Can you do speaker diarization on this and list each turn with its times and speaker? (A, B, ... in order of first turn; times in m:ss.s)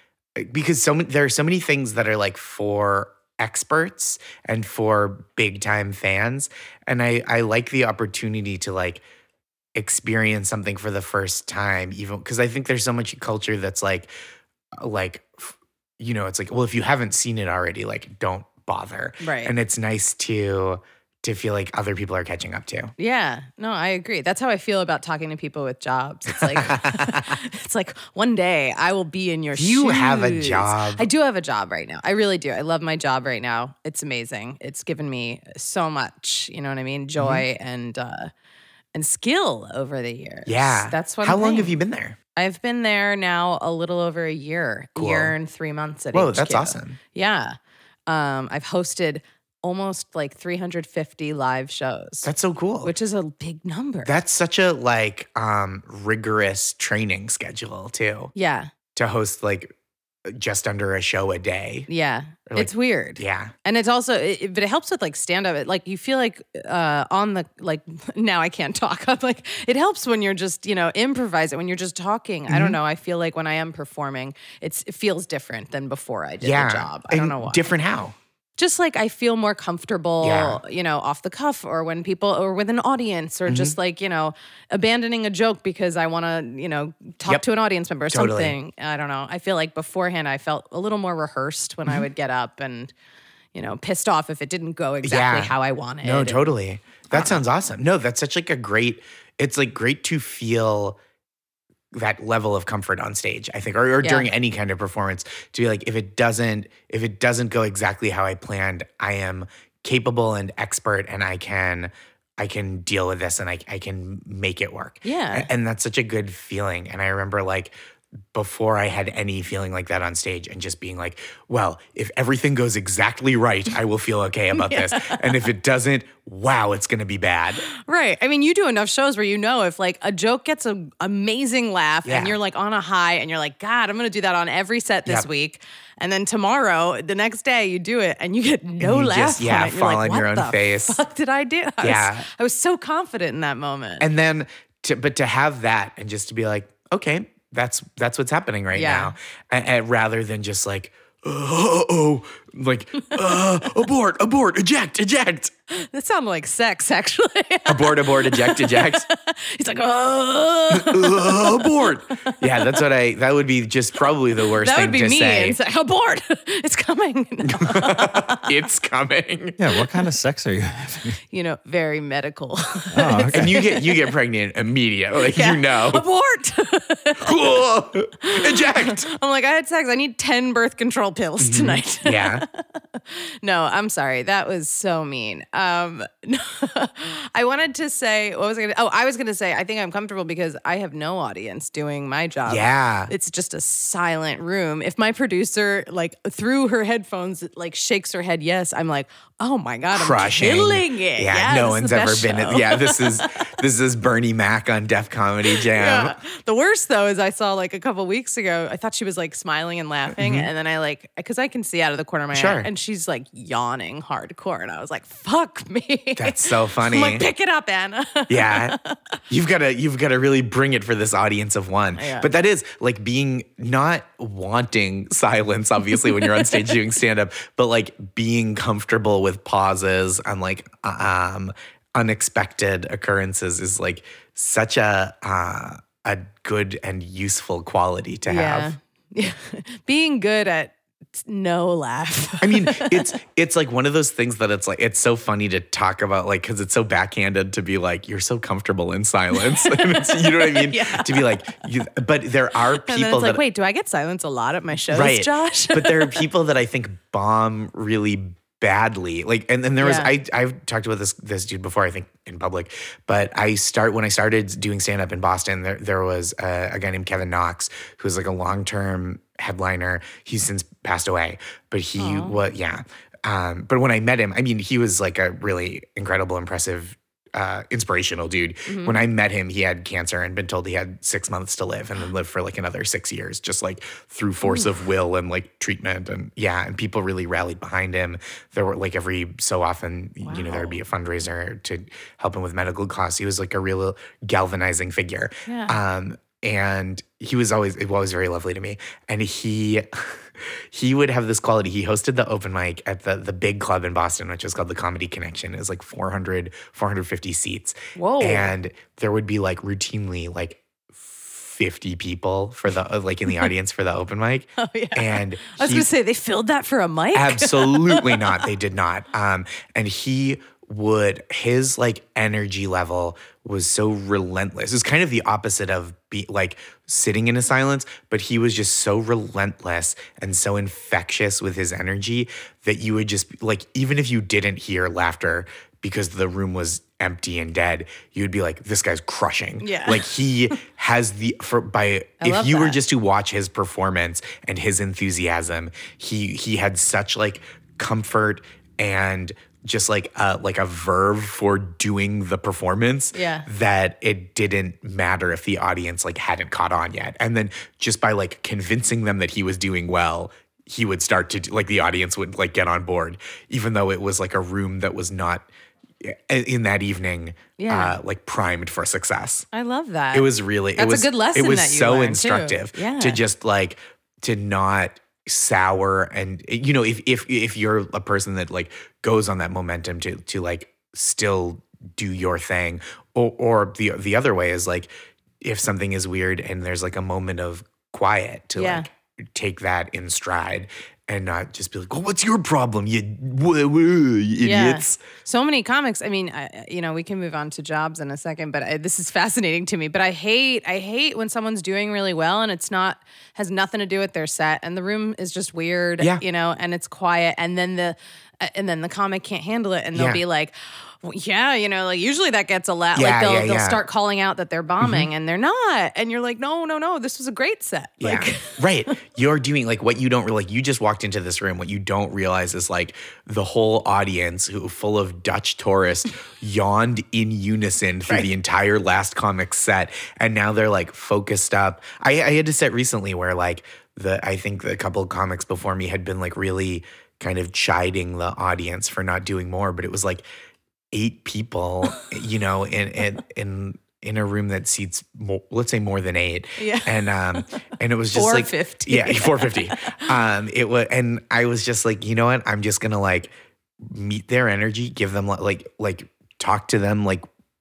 0:00.4-0:09.0 A
0:09.7-0:14.1 A
0:14.8-0:22.9 A
0:19.2-0:19.5 B
0:23.0-0:38.3 B
0:26.3-0:27.3 A
0:29.6-0:31.1 A
0:37.2-0:37.4 A
0:38.9-0:41.8 B
0:40.4-0:42.2 A
0:42.4-0:47.6 B
0:45.0-0:45.3 A
0:46.1-0:47.0 A
0:48.1-0:52.3 B
0:52.2-0:52.9 A
0:52.8-0:54.1 B
0:54.0-0:58.3 A
0:58.3-0:58.7 B
0:58.9-0:59.7 A
1:00.2-1:01.9 A
1:01.9-1:17.6 B
1:02.5-1:03.5 A
1:12.5-1:12.8 A
1:16.4-1:18.1 A
1:18.6-1:32.9 B
1:20.2-1:20.6 A
1:23.5-1:23.7 A
1:28.1-1:28.5 A
1:33.5-1:36.4 B
1:35.0-1:41.0 A
1:37.1-1:37.4 B
1:41.9-1:57.7 A
1:44.0-1:44.3 B
1:55.0-1:55.5 B
1:58.3-2:07.6 A
2:04.5-2:05.3 B
2:07.7-2:24.0 B
2:12.0-2:12.4 A
2:18.8-2:21.0 A
2:21.8-2:22.3 A
2:24.0-2:35.5 A
2:28.7-2:29.1 B
2:35.7-2:42.8 B
2:37.7-2:39.0 A
2:40.7-2:45.6 A
2:44.6-2:48.5 B
2:47.5-2:49.6 A
2:49.6-2:51.2 C
2:51.3-2:54.1 B
2:52.9-2:53.6 C
2:53.3-2:56.0 A
2:55.3-2:57.5 B
2:57.2-2:59.1 A
2:58.2-3:23.4 B
3:01.4-3:02.4 A
3:12.4-3:13.1 A
3:19.9-3:26.2 A
3:25.5-3:39.2 B
3:30.2-3:30.5 A
3:32.3-3:32.7 A
3:36.2-3:37.2 A
3:38.3-3:38.8 A
3:39.3-3:58.7 A
3:42.0-3:42.3 B
3:45.9-3:46.8 B
3:58.3-4:03.2 B
4:02.4-4:13.4 A
4:09.4-4:11.3 B
4:12.8-4:16.2 B
4:14.9-5:15.9 A
4:19.8-4:20.1 B
4:32.0-4:32.4 B
4:38.6-4:39.0 B
4:50.2-4:50.8 B
4:55.4-4:55.8 B
5:07.9-5:08.5 B
5:14.6-5:18.4 B
5:17.1-6:05.5 A
5:39.6-5:40.2 B
5:42.2-5:42.8 B
5:53.1-5:53.5 B
6:06.0-6:09.5 A
6:07.6-6:08.0 B
6:09.5-6:13.2 B
6:10.1-6:24.9 A
6:25.4-6:35.0 A
6:28.6-6:28.9 B
6:34.4-6:58.9 B
6:49.9-6:50.2 A
6:52.9-6:53.8 A
6:54.8-6:55.1 A
6:58.0-7:20.2 A
7:20.9-7:37.2 A
7:26.6-7:27.4 B
7:28.1-7:30.1 B